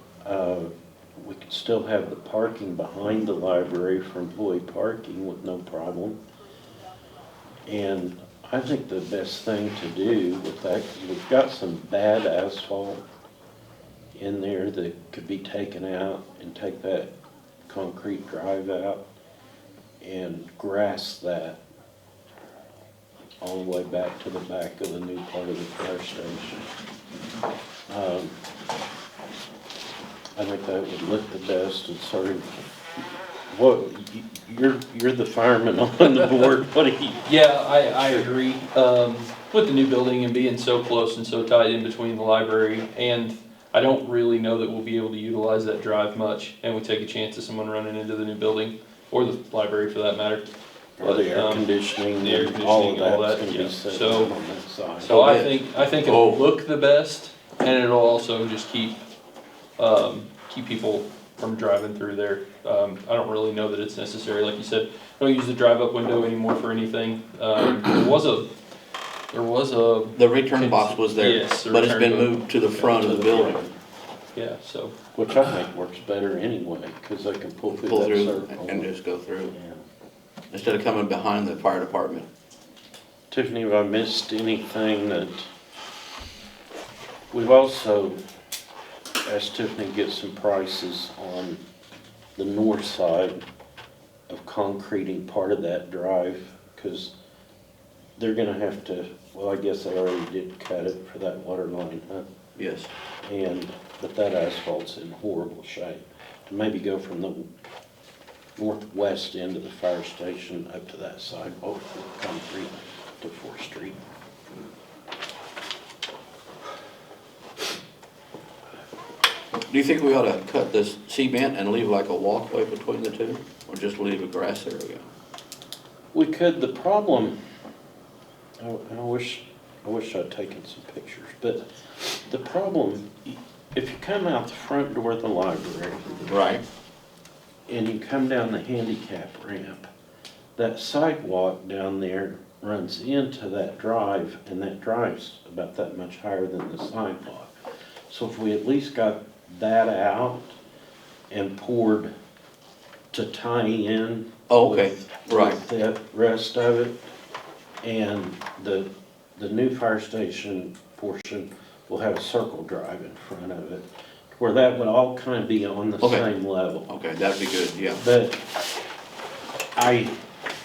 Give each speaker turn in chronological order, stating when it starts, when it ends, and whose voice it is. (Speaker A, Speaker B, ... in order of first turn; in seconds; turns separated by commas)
Speaker A: 0.2-6.2, Speaker A: 7.7-13.0, Speaker A: 14.1-17.1, Speaker A: 17.7-19.1, Speaker A: 20.0-21.6, Speaker A: 23.4-26.6, Speaker A: 27.9-28.4, Speaker A: 30.4-32.6, Speaker A: 33.5-37.3, Speaker B: 37.2-50.5, Speaker A: 37.9-38.3, Speaker A: 51.0-55.4, Speaker B: 51.0-54.3, Speaker B: 55.0-59.0, Speaker C: 55.1-56.4, Speaker B: 59.8-68.5, Speaker B: 69.3-73.0, Speaker C: 70.2-73.6, Speaker A: 72.8-73.8, Speaker B: 74.3-75.0, Speaker A: 75.2-78.9, Speaker C: 77.8-79.5, Speaker A: 79.5-79.8, Speaker C: 80.5-82.3, Speaker A: 83.3-85.5, Speaker A: 87.3-88.2, Speaker A: 89.2-91.6, Speaker A: 92.4-93.4, Speaker A: 94.3-97.1, Speaker A: 98.2-102.3, Speaker C: 102.6-102.9, Speaker A: 103.2-107.5, Speaker A: 108.6-114.0, Speaker C: 119.7-125.1, Speaker A: 126.1-127.4, Speaker A: 128.6-136.4, Speaker C: 136.3-136.6, Speaker A: 137.7-139.9, Speaker A: 140.6-147.6, Speaker A: 148.1-150.6, Speaker A: 151.3-152.1, Speaker A: 153.1-157.0, Speaker C: 154.5-155.6, Speaker A: 157.8-166.9, Speaker C: 166.0-166.3, Speaker C: 166.9-168.0, Speaker A: 168.0-168.4, Speaker A: 169.8-170.2